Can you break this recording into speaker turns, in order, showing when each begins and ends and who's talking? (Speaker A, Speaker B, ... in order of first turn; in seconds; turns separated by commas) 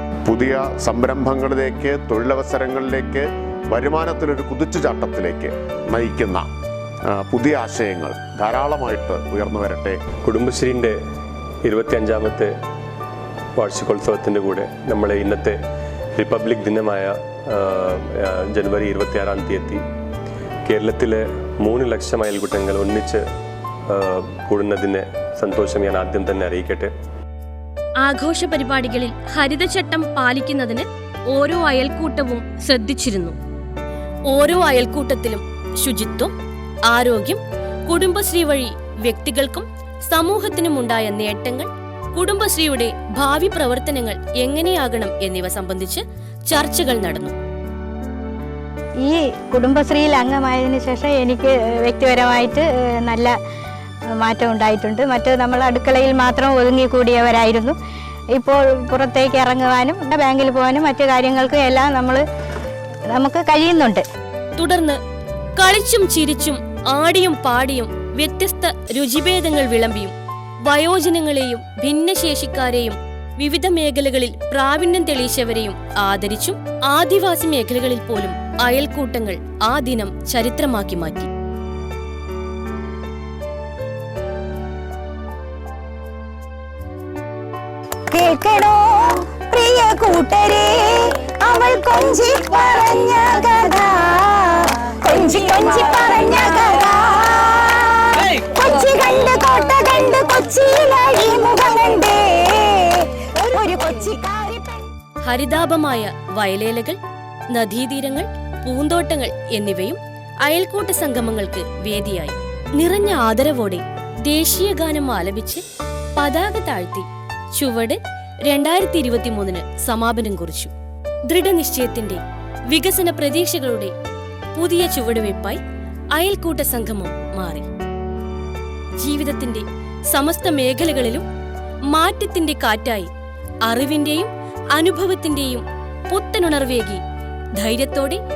Speaker A: 0.2-6.5, Speaker A: 7.1-10.0, Speaker B: 10.2-11.0, Speaker B: 11.6-12.5, Speaker B: 13.6-15.6, Speaker B: 16.2-19.8, Speaker B: 20.7-23.2, Speaker B: 23.9-26.9, Speaker C: 28.0-33.4, Speaker C: 34.3-36.3, Speaker C: 36.9-47.4, Speaker D: 49.0-53.3, Speaker D: 54.2-57.8, Speaker D: 58.3-62.2, Speaker D: 63.1-64.0, Speaker C: 64.5-65.0, Speaker C: 65.5-70.1, Speaker C: 70.7-81.3, Speaker D: 88.1-104.8, Speaker C: 105.2-107.0, Speaker C: 107.5-115.7, Speaker C: 116.2-120.7, Speaker C: 121.3-123.9, Speaker C: 124.5-125.6, Speaker C: 126.1-127.7, Speaker C: 129.0-131.3, Speaker C: 131.9-133.1, Speaker C: 133.7-137.0, Speaker C: 137.6-138.2